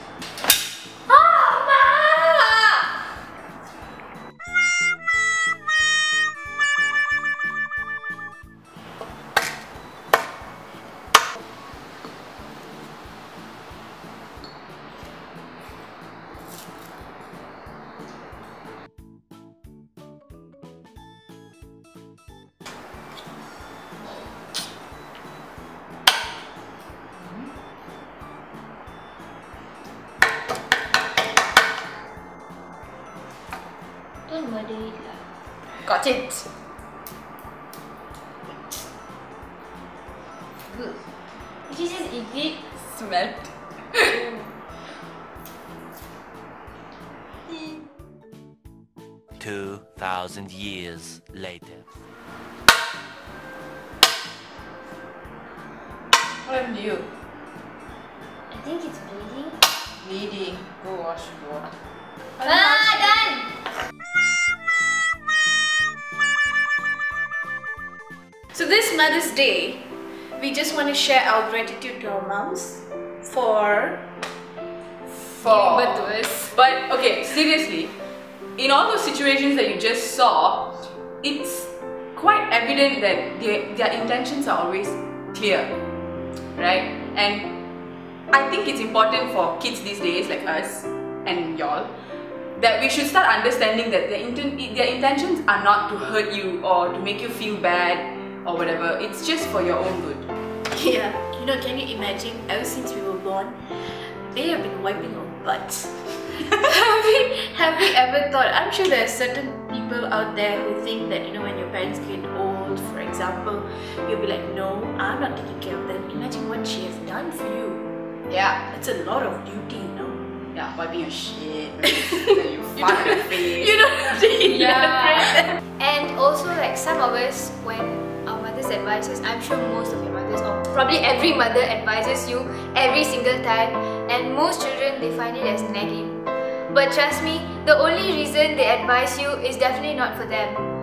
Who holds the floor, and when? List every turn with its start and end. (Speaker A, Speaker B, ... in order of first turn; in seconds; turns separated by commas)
Speaker A: 1.1-2.8, Speaker A: 34.3-35.2, Speaker B: 35.8-36.4, Speaker A: 41.7-42.6, Speaker B: 42.8-43.5, Speaker A: 44.0-44.5, Speaker C: 49.4-51.9, Speaker B: 56.5-57.1, Speaker A: 58.5-59.6, Speaker B: 60.0-61.7, Speaker A: 62.4-63.5, Speaker D: 62.5-63.1, Speaker D: 68.5-74.0, Speaker B: 75.2-77.9, Speaker A: 75.4-76.5, Speaker B: 78.6-85.7, Speaker B: 86.6-87.5, Speaker B: 88.3-91.9, Speaker B: 92.6-100.3, Speaker D: 100.7-103.5, Speaker D: 104.3-117.8, Speaker B: 118.3-118.7, Speaker D: 118.7-120.2, Speaker B: 120.5-123.9, Speaker D: 122.8-125.6, Speaker A: 124.5-136.2, Speaker A: 136.7-140.6